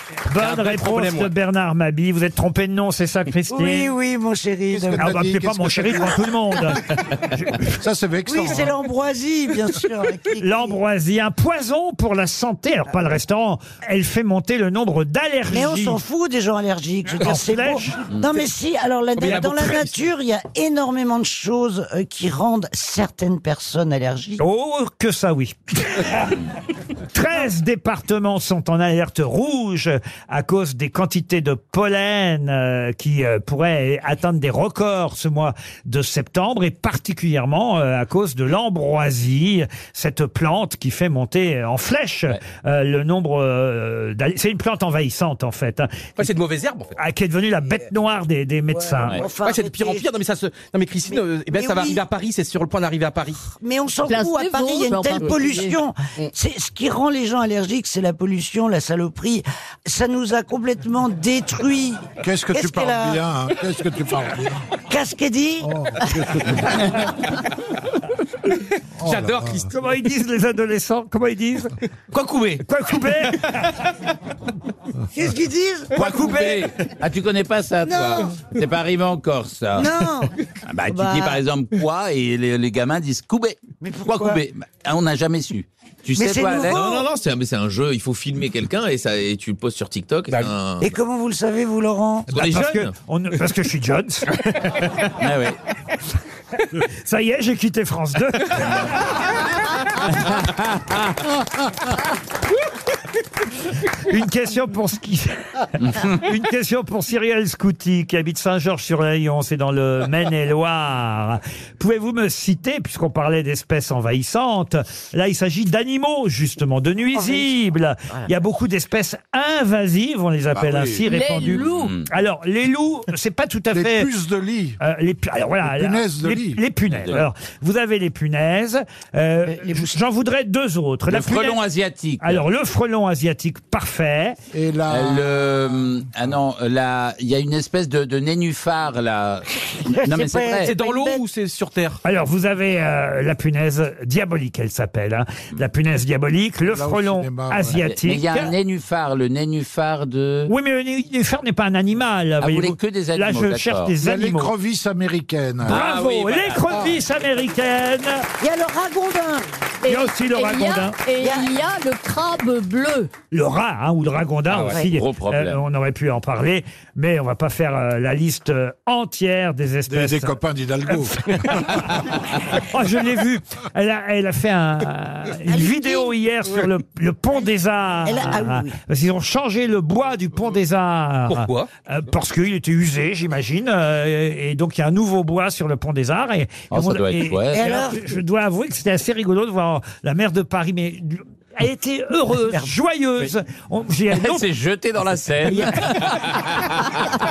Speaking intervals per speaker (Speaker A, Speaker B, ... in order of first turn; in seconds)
Speaker A: 0.3-3.9, 5.0-7.7, 10.4-16.0, 17.2-18.0, 24.4-26.4, 27.1-46.1, 47.0-49.2, 69.7-71.7, 72.6-73.6, 76.0-76.7, 92.3-94.3, 97.0-98.8, 104.0-124.1, 124.8-131.6, 132.2-134.4, 142.0-148.5, 150.5-154.5, 155.7-158.3, 159.9-161.0, 163.3-170.4, 170.9-194.5
Speaker B: 0.4-1.3, 19.2-19.9, 46.2-47.0, 49.4-53.4, 69.0-69.7, 140.6-142.0, 181.3-181.7
Speaker C: 3.5-5.1, 8.3-10.8, 15.5-24.4, 48.7-50.1, 51.1-52.0, 53.6-63.2, 64.9-65.7, 75.1-75.9, 77.8-78.3, 79.8-80.3, 80.9-81.4, 83.8-84.4, 86.2-87.0, 90.8-92.3, 117.1-117.5, 129.5-130.0, 139.9-141.2, 158.4-159.5, 161.2-161.5, 175.5-176.2, 178.0-178.8, 187.5-188.0
Speaker D: 4.7-6.2, 7.7-8.8, 62.2-64.7, 65.6-66.8, 69.0-69.6, 120.5-121.0, 123.7-124.8, 125.6-126.6, 134.5-135.6, 146.7-147.8, 154.0-155.8, 169.9-171.6
Speaker E: 54.1-55.8, 121.0-122.0, 159.8-163.1
Speaker F: 72.1-72.6, 86.6-90.9, 92.3-92.9
Speaker G: 76.0-80.0, 80.7-86.9, 95.2-95.6, 121.4-122.1, 126.9-127.2, 131.1-132.4, 134.9-140.7, 147.8-150.5, 152.4-153.9, 155.7-156.8, 164.5-165.6, 186.7-187.8, 194.1-196.8